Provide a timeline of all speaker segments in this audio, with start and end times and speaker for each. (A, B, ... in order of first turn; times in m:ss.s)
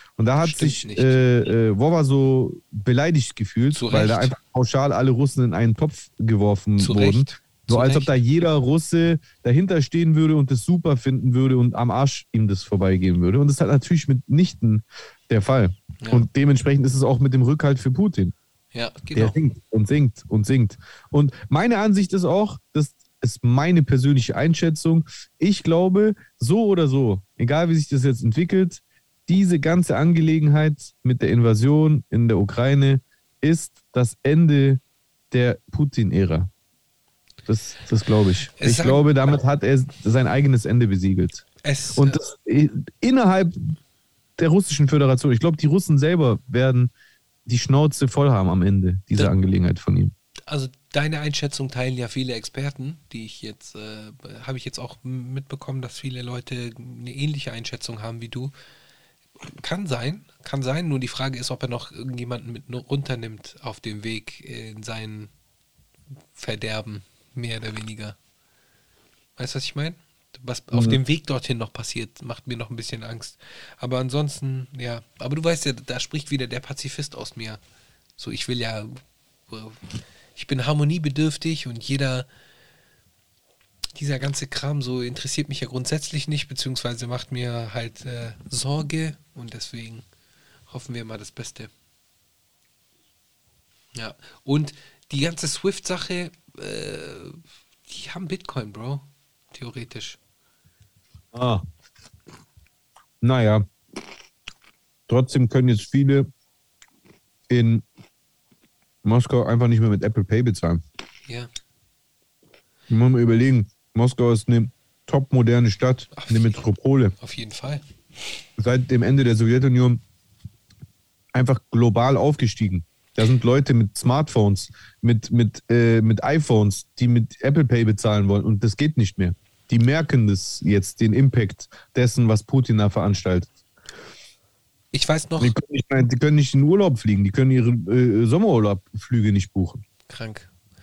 0:00.2-0:18.3 A
0:00.4-0:01.2 B
0:03.7-0:04.3 B
0:06.8-0:08.1 B
0:16.0-0:16.3 B
0:18.7-0:19.4 B
0:19.1-0:36.5 A
0:37.5-0:41.4 A
0:38.6-0:39.1 B
0:41.6-0:42.2 B
0:42.0-0:43.8 A
0:44.4-0:46.9 A
0:47.5-0:50.1 A
0:50.5-0:58.5 B
0:59.5-1:05.3 B
1:06.4-1:08.2 B
1:09.4-1:17.6 B
1:10.7-1:11.0 A
1:18.2-1:19.8 B
1:20.4-1:22.3 B
1:24.0-1:30.0 B
1:30.7-1:31.7 B
1:34.0-1:40.2 B
1:41.3-1:41.6 A
1:43.2-1:43.7 A
1:45.1-1:46.3 A
1:47.5-1:47.8 A
1:49.0-1:50.8 A
1:52.9-1:57.1 A
1:56.2-1:56.6 B
1:57.2-1:57.8 B
1:58.6-2:00.0 A
2:01.3-2:13.5 A
2:14.9-2:15.6 B
2:15.4-2:19.8 A
2:20.1-2:20.5 B